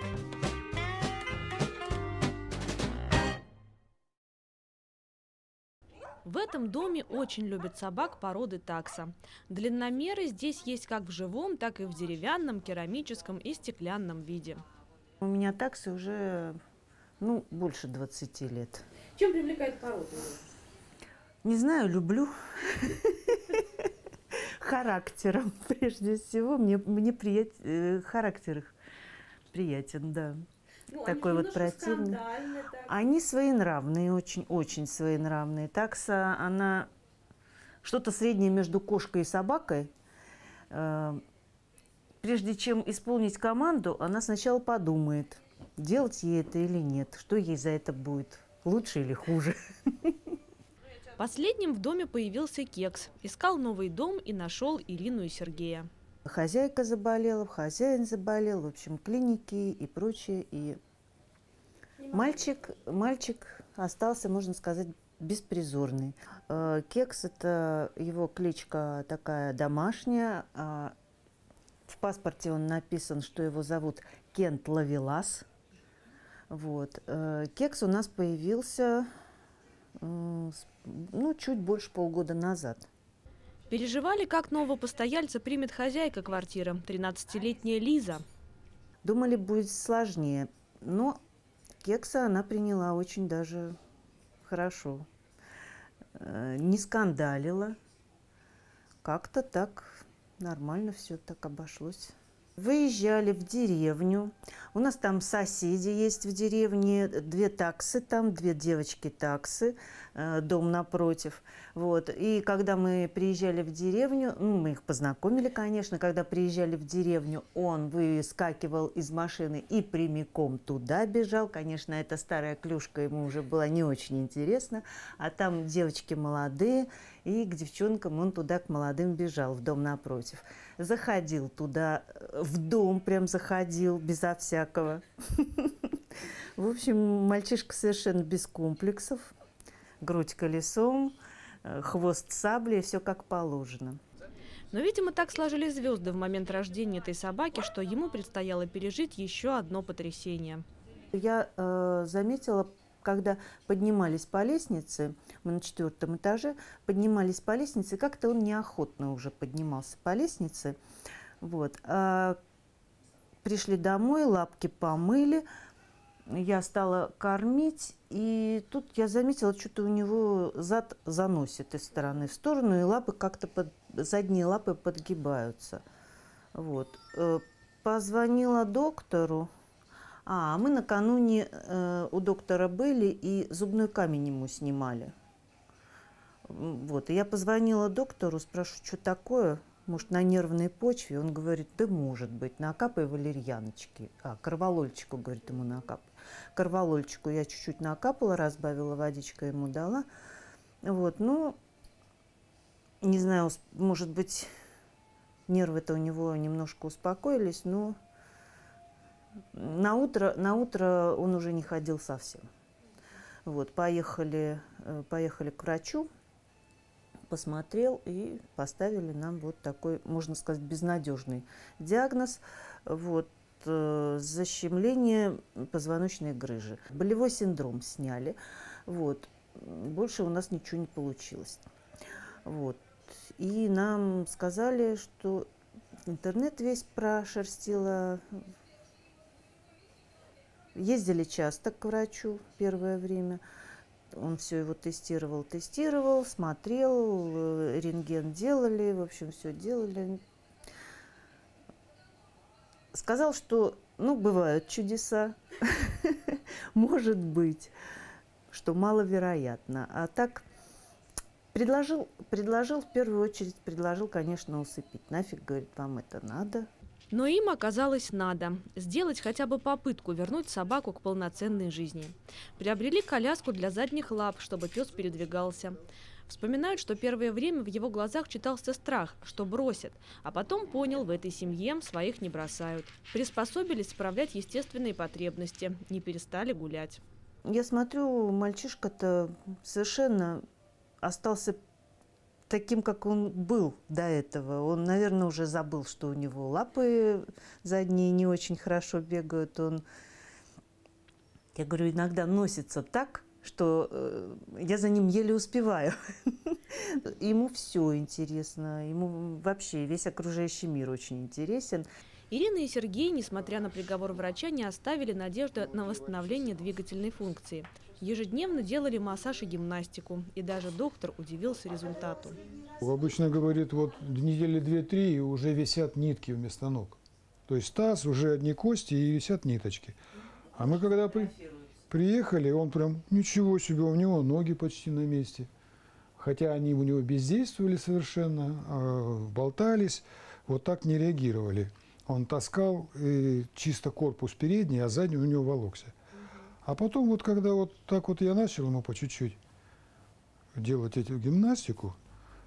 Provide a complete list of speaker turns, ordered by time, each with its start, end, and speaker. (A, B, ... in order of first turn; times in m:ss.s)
0:06.2-0:14.6 A
0:15.2-0:16.6 B
0:17.2-0:18.8 B
0:19.2-0:20.4 A
0:21.4-0:28.7 B
0:29.5-0:30.4 B
0:30.9-0:36.9 B
0:37.8-0:39.9 B
0:40.7-0:41.2 B
0:42.2-0:50.2 B
0:51.2-0:55.9 A
0:56.2-1:00.8 B
1:02.1-1:10.9 B
1:11.9-1:15.4 B
1:16.5-1:19.1 B
1:20.0-1:22.9 B
1:23.7-1:28.2 A
1:29.0-1:31.2 B
1:31.8-1:33.7 B
1:34.4-1:35.0 B
1:36.2-1:37.8 B
1:39.0-2:15.9 B
2:16.6-2:19.3 B
2:20.0-2:24.0 B
2:24.7-2:30.6 A
2:31.1-2:40.8 B
2:41.4-2:42.4 B
2:43.4-2:45.4 B
2:46.3-2:55.8 B
2:56.5-2:59.5 B
3:00.2-3:05.1 B
3:06.4-3:20.0 B
3:20.8-3:21.6 B
3:23.0-3:24.5 B
3:25.5-3:28.0 B
3:29.5-3:32.4 B
3:33.4-3:36.1 B
3:37.3-3:51.7 B
3:52.4-3:55.5 B
3:56.0-3:58.4 B
4:00.7-4:03.4 B
4:04.1-4:10.2 B
4:12.9-4:17.7 B
4:18.5-4:20.4 B
4:21.5-4:26.7 B
4:27.1-4:47.0 A
4:47.4-4:50.4 B
4:51.0-4:51.6 B
4:52.5-4:59.8 B
5:01.5-5:11.9 B
5:12.3-5:22.4 A
5:22.8-5:30.0 C
5:30.6-5:31.4 C
5:31.9-5:35.5 C
5:36.2-5:45.9 C
5:46.6-5:49.4 C
5:50.5-5:52.0 C